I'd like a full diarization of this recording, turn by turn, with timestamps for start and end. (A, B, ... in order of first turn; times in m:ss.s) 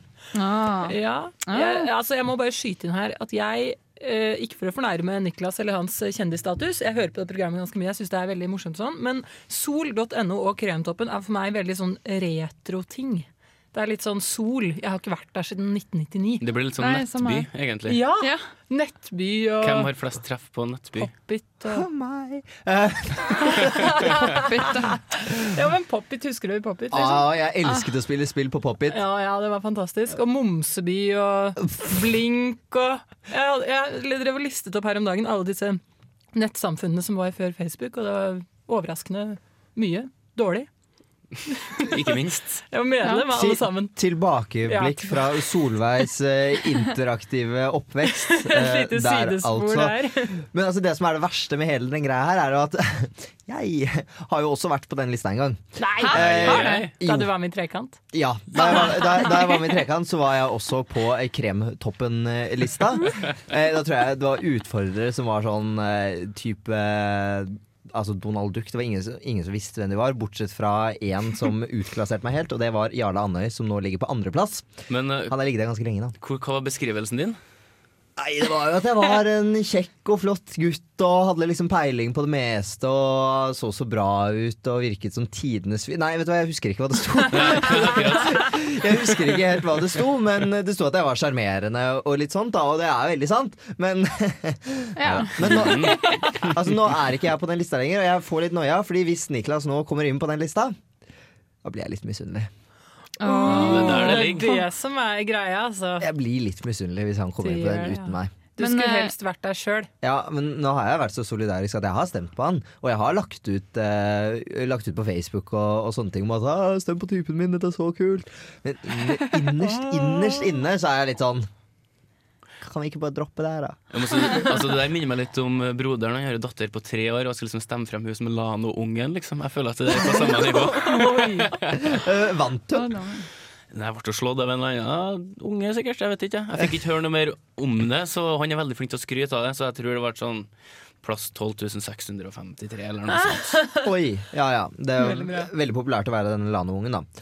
0:00.3-0:01.9 A
0:00.9-0:16.5 B
0:16.4-0:18.0 C
0:16.8-0:17.5 A
0:17.8-0:19.9 B
0:18.2-0:18.5 A
0:19.6-0:21.1 C
0:21.0-0:21.8 B
0:21.7-0:23.4 D
0:23.6-0:24.4 B
0:24.3-0:25.0 A
0:25.1-0:27.2 B
0:26.9-0:29.0 D
0:28.9-0:35.8 B
0:36.3-0:40.7 B
0:41.9-0:42.6 C
0:42.6-0:44.1 B
0:43.0-0:43.3 A
0:43.4-0:57.3 D
0:44.6-0:45.5 B
0:48.2-0:50.4 B
0:55.8-0:58.0 B
0:56.0-0:56.7 A
0:56.1-0:56.9 C
0:58.1-1:14.7 D
0:58.6-0:59.3 A
1:14.9-1:15.3 C
1:15.2-1:16.1 D
1:16.2-1:17.4 C
1:18.2-1:40.8 D
1:27.3-1:28.4 C
1:35.0-1:36.2 A
1:35.5-1:35.9 C
1:41.6-1:42.5 D
1:43.2-1:44.2 A
1:43.2-1:46.1 B
1:43.5-1:44.7 C
1:46.0-1:48.3 D
1:47.4-1:49.9 B
1:48.6-1:49.1 A
1:50.0-2:01.5 D
2:02.6-2:03.8 D
2:03.9-2:11.3 C
2:10.7-2:11.5 B
2:11.9-2:13.0 D
2:12.7-2:13.3 A
2:13.7-2:23.6 C
2:23.8-2:27.1 D
2:25.0-2:25.5 B